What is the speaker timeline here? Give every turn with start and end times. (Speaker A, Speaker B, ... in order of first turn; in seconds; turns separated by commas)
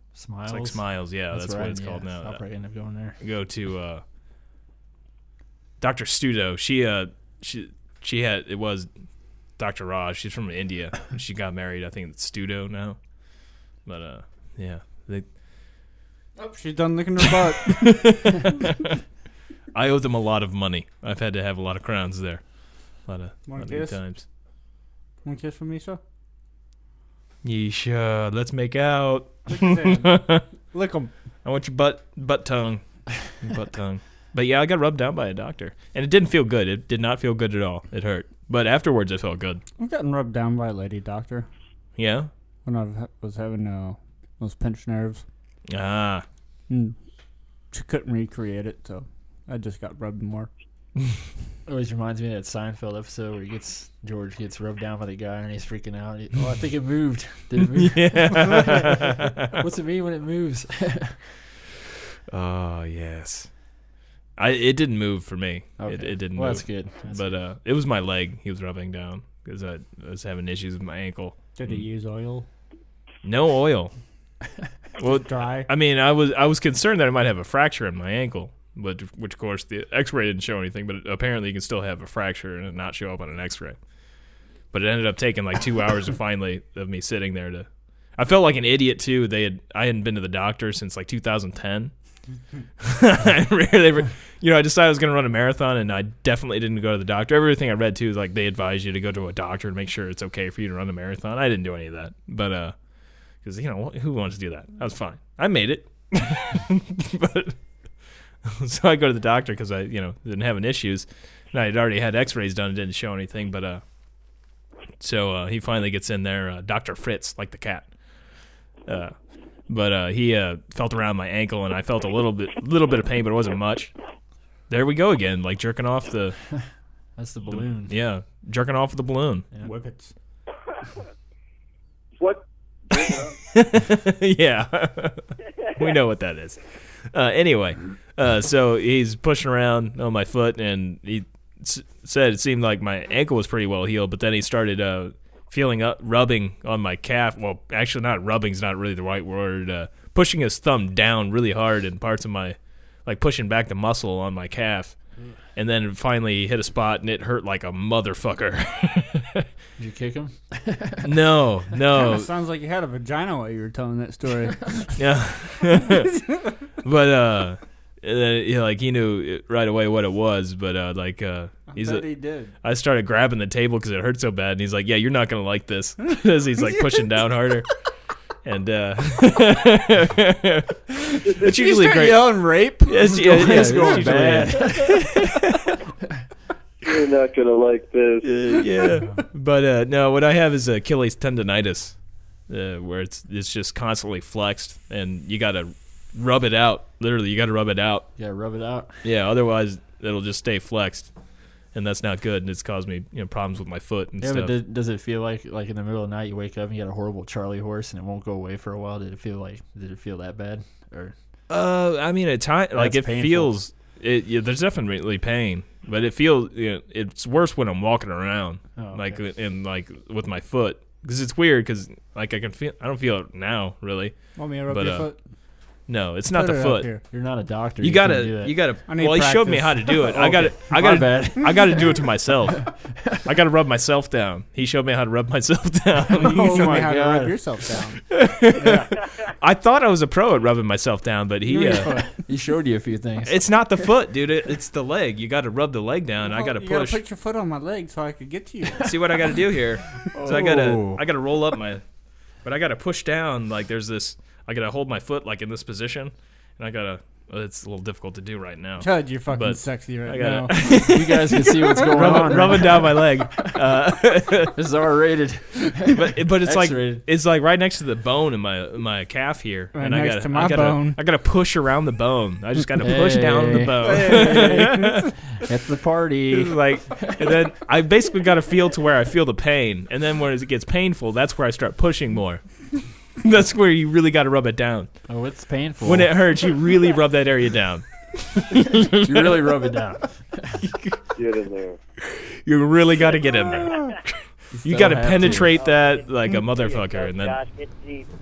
Speaker A: 0.1-3.1, Speaker B: 0.5-2.4, Speaker B: 3.2-4.0, Speaker B: 5.8-8.9, Speaker B: 9.6-13.0, Speaker B: 13.8-15.2, Speaker C: 16.4-18.1, Speaker B: 17.6-19.0, Speaker B: 19.7-22.4, Speaker B: 23.1-24.2, Speaker C: 23.5-24.0, Speaker C: 25.2-26.0, Speaker B: 27.4-30.4, Speaker C: 29.5-31.1, Speaker B: 31.4-39.6, Speaker C: 39.8-41.5, Speaker B: 42.0-42.3, Speaker C: 42.6-45.2, Speaker B: 45.7-46.2, Speaker C: 46.7-47.0, Speaker C: 47.7-50.5, Speaker A: 51.7-58.9, Speaker B: 57.6-59.6, Speaker A: 59.5-61.2, Speaker B: 62.3-63.5, Speaker B: 64.4-71.8, Speaker A: 65.8-67.4, Speaker C: 71.5-72.5, Speaker B: 73.2-73.9, Speaker B: 75.0-83.8, Speaker C: 75.0-75.7, Speaker B: 84.7-91.9, Speaker B: 92.8-102.7, Speaker B: 103.4-107.5, Speaker B: 108.4-113.8, Speaker B: 115.0-117.9, Speaker B: 118.8-119.1, Speaker B: 119.7-123.9, Speaker B: 124.7-126.4, Speaker A: 127.2-127.9, Speaker B: 127.5-129.5, Speaker C: 129.6-130.1, Speaker D: 132.2-133.3, Speaker B: 133.5-154.9, Speaker B: 155.6-159.4, Speaker A: 159.8-161.1, Speaker B: 161.0-162.3, Speaker C: 161.9-164.9, Speaker B: 164.9-166.2, Speaker B: 166.8-172.1, Speaker C: 171.7-172.5, Speaker B: 172.6-177.7, Speaker B: 178.4-185.8, Speaker C: 181.4-184.5, Speaker A: 183.1-185.2, Speaker D: 186.8-188.6, Speaker B: 188.2-191.9, Speaker B: 192.5-198.1, Speaker A: 198.2-199.0, Speaker B: 199.0-201.1, Speaker B: 201.7-204.5, Speaker A: 204.2-211.1, Speaker B: 211.5-224.1, Speaker A: 212.7-213.5, Speaker A: 218.8-219.2, Speaker C: 224.3-225.2, Speaker B: 224.7-225.1, Speaker B: 225.9-227.0, Speaker C: 226.3-227.0, Speaker A: 227.1-228.6, Speaker B: 227.8-236.8, Speaker C: 228.9-229.9, Speaker A: 230.0-232.0, Speaker A: 232.6-233.2, Speaker C: 236.1-238.9, Speaker A: 236.2-237.4, Speaker B: 238.1-241.9, Speaker C: 241.4-242.1, Speaker A: 242.2-243.5, Speaker B: 243.2-247.0, Speaker C: 246.2-248.9, Speaker B: 248.8-251.8, Speaker A: 250.1-251.0, Speaker B: 252.4-264.6, Speaker C: 258.8-260.8, Speaker A: 260.8-263.5, Speaker A: 264.5-267.0, Speaker B: 265.9-275.1, Speaker C: 269.7-271.0, Speaker A: 272.8-277.5, Speaker C: 273.8-275.0, Speaker B: 276.3-282.4, Speaker B: 283.2-284.9, Speaker A: 285.1-286.2, Speaker B: 285.8-289.5, Speaker A: 289.0-290.6, Speaker B: 290.6-291.0, Speaker D: 291.1-291.8, Speaker B: 292.0-297.4, Speaker A: 294.5-295.5, Speaker E: 295.2-298.1